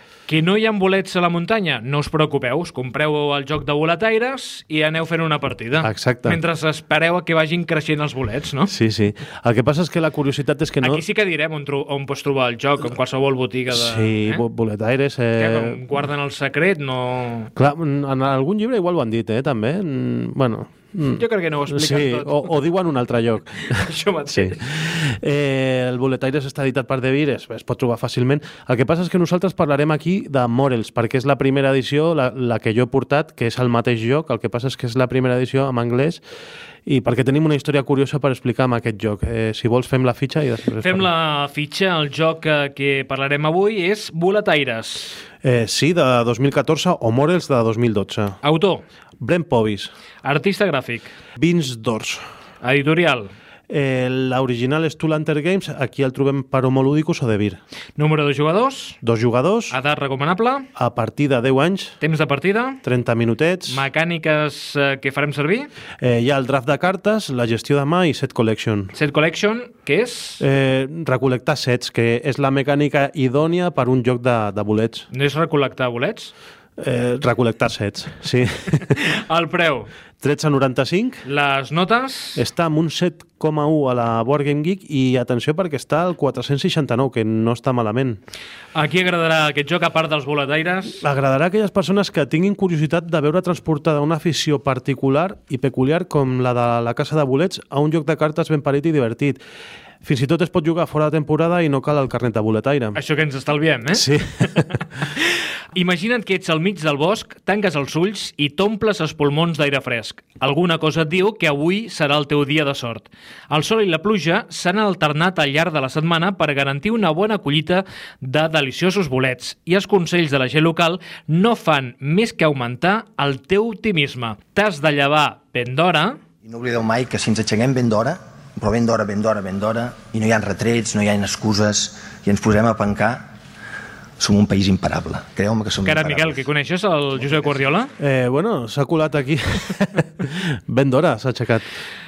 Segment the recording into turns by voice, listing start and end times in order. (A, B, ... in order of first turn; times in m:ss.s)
0:00.3-0:08.7 A
0:05.8-0:06.4 B
0:08.7-0:11.0 B
0:10.8-0:14.4 A
0:13.7-0:15.8 B
0:15.4-0:17.5 A
0:17.6-0:36.2 B
0:21.1-0:22.5 A
0:23.7-0:24.6 A
0:36.8-0:41.1 B
0:40.8-0:45.2 A
0:45.4-0:48.4 B
0:48.4-0:48.8 A
0:49.2-0:49.9 B
0:50.2-0:51.1 A
0:51.4-0:52.2 B
0:52.6-0:53.3 A
0:53.7-0:57.6 B
0:58.0-0:59.0 A
0:59.0-0:59.8 B
0:59.7-1:00.7 A
1:00.7-1:02.0 B
1:02.0-1:02.8 A
1:02.8-1:03.8 B
1:03.7-1:05.7 A
1:06.0-1:08.9 B
1:08.9-1:10.4 A
1:10.4-1:15.1 B
1:15.1-1:16.3 A
1:16.8-1:18.8 B
1:18.8-1:19.9 A
1:20.2-1:21.2 B
1:21.2-1:22.4 A
1:22.4-1:28.2 B
1:28.7-1:31.0 A
1:31.0-1:39.4 B
1:40.0-1:43.0 B
1:43.0-2:06.2 A
1:43.9-1:44.8 B
2:06.4-2:13.3 C
2:14.2-2:16.4 C
2:15.8-2:17.9 A
2:18.0-2:21.6 B